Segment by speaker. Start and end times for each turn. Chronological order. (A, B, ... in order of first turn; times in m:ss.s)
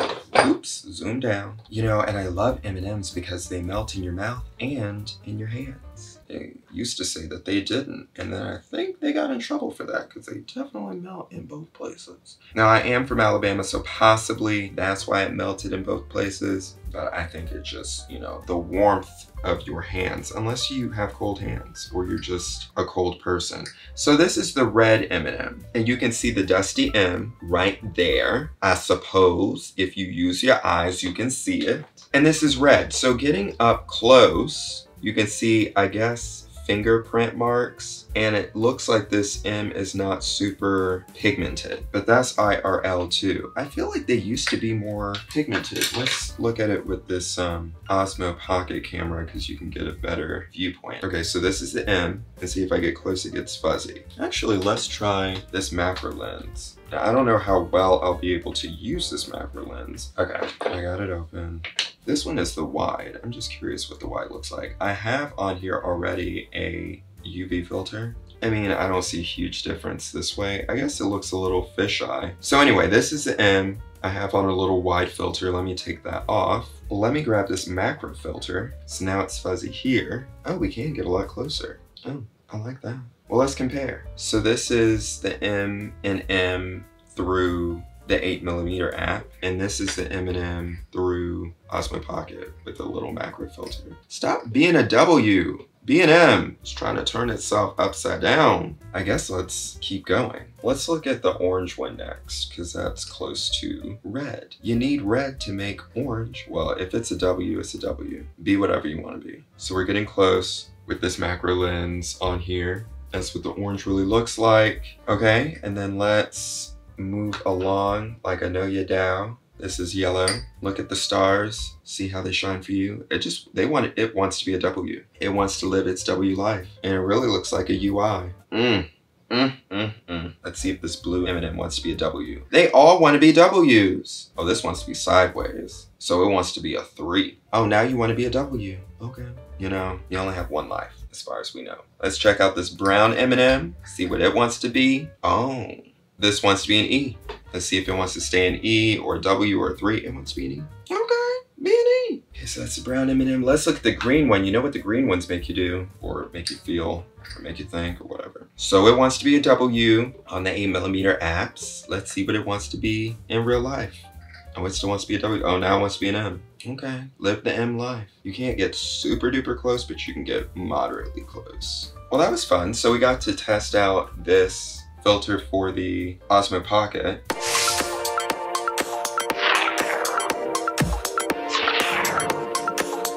0:00.4-2:57.2 A